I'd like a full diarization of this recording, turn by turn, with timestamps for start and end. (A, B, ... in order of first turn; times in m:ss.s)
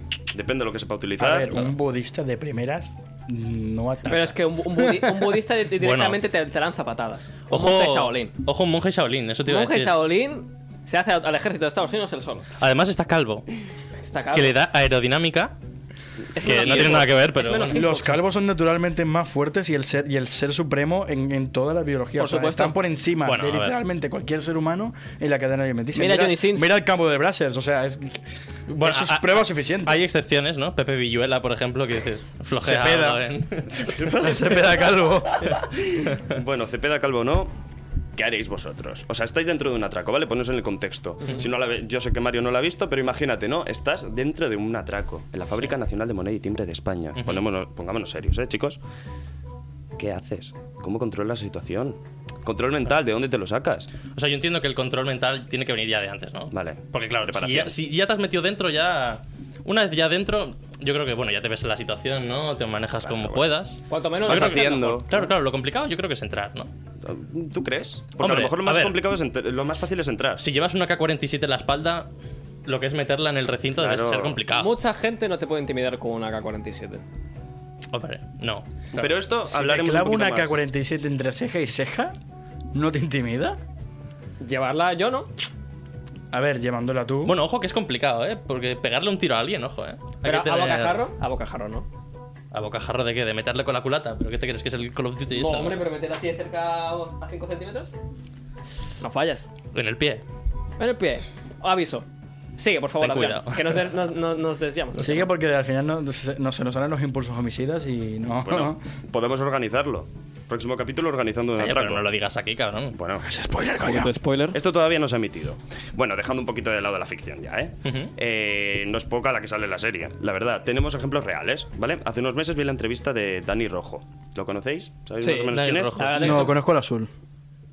0:00.3-0:01.7 A
0:01.2-0:05.2 B
0:04.0-0:08.3 C
0:05.8-0:06.2 D
0:07.5-0:10.0 D
0:09.5-0:12.4 C
0:12.6-0:13.5 D
0:14.0-0:14.5 C
0:14.3-0:15.5 D
0:16.3-0:18.1 C
0:16.4-0:17.8 D
0:16.5-0:17.1 A
0:17.7-0:30.0 B
0:22.2-0:22.8 C
0:23.2-0:23.8 D
0:25.9-0:26.7 C
0:28.8-0:33.9 D
0:32.6-0:33.2 B
0:33.8-0:35.6 B
0:36.1-0:37.5 A
0:38.2-0:48.8 A
0:47.2-0:47.4 D
0:50.0-0:53.9 A
0:54.1-1:06.7 D
0:56.5-0:57.8 A
1:03.0-1:03.5 A
1:03.9-1:05.2 C
1:04.2-1:05.1 A
1:07.0-1:10.4 A
1:08.2-1:09.0 D
1:10.4-1:12.1 D
1:12.6-1:14.7 D
1:13.7-1:14.4 A
1:14.5-1:17.0 C
1:17.9-1:19.2 D
1:19.0-1:20.6 A
1:19.5-1:22.1 B
1:22.7-1:23.6 B
1:24.4-1:25.3 C
1:26.3-1:27.4 B
1:27.2-1:31.0 D
1:30.2-1:31.8 C
1:32.5-1:35.8 D
1:35.3-1:37.9 C
1:39.0-1:39.5 C
1:39.7-1:40.2 D
1:40.8-1:42.0 C
1:42.6-1:45.3 C
1:43.0-1:43.8 D
1:45.0-1:48.8 B
1:48.4-1:52.0 A
1:51.6-1:53.0 D
1:52.9-1:53.2 A
1:53.2-1:54.1 B
1:53.8-1:54.6 C
1:54.5-2:06.4 A
1:57.8-1:58.1 D
2:05.2-2:06.5 C
2:05.5-2:06.5 D
2:06.2-2:07.1 B